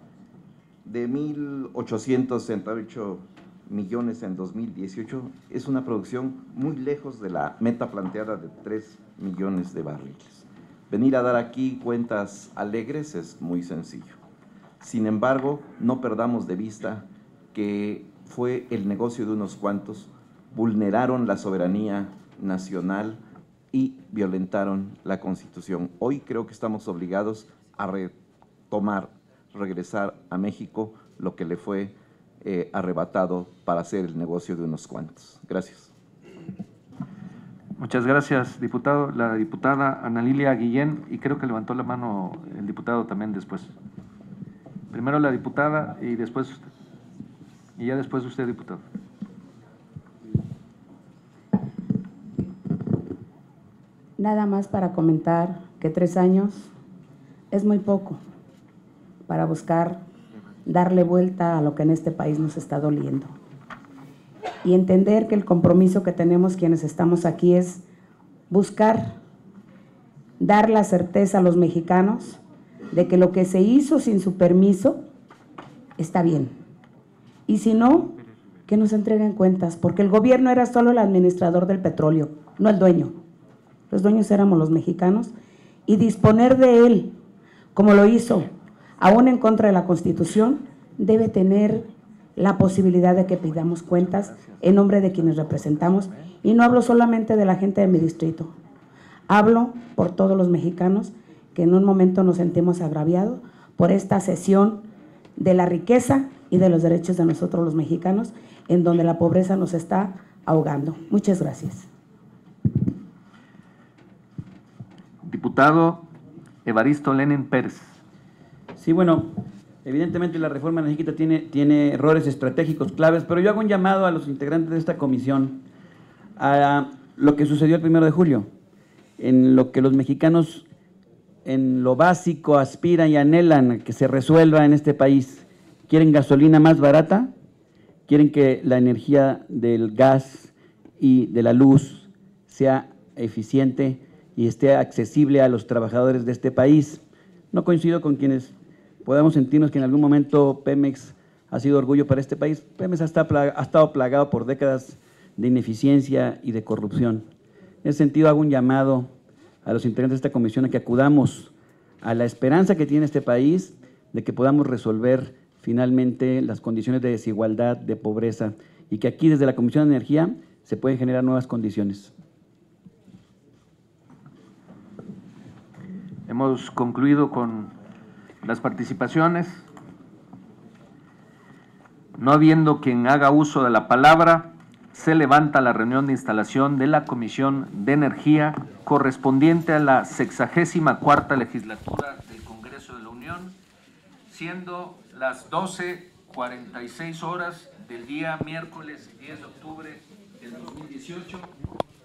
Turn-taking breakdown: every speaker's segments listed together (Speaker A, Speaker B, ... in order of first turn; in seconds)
Speaker A: 0.8-14.2, 14.8-23.2, 23.7-28.1, 28.7-35.9
Speaker B: 37.8-43.7, 44.9-46.7, 47.8-48.8, 93.4-96.3, 115.2-116.1, 116.6-118.0, 176.3-177.7, 178.4-179.7, 182.2-193.6, 194.3-201.5
Speaker C: 54.2-56.7, 57.5-58.2, 59.3-60.1, 60.6-63.3, 64.6-67.8, 68.5-69.2, 70.4-72.4, 72.9-75.1, 76.0-76.5, 77.5-78.1, 78.7-83.2, 83.9-85.3, 85.9-87.2, 87.7-98.5, 99.3-104.8, 105.4-111.9
Speaker D: 118.8-125.6, 126.4-128.5, 129.2-130.7, 131.4-137.3, 138.1-157.3, 157.8-159.1, 159.6-172.1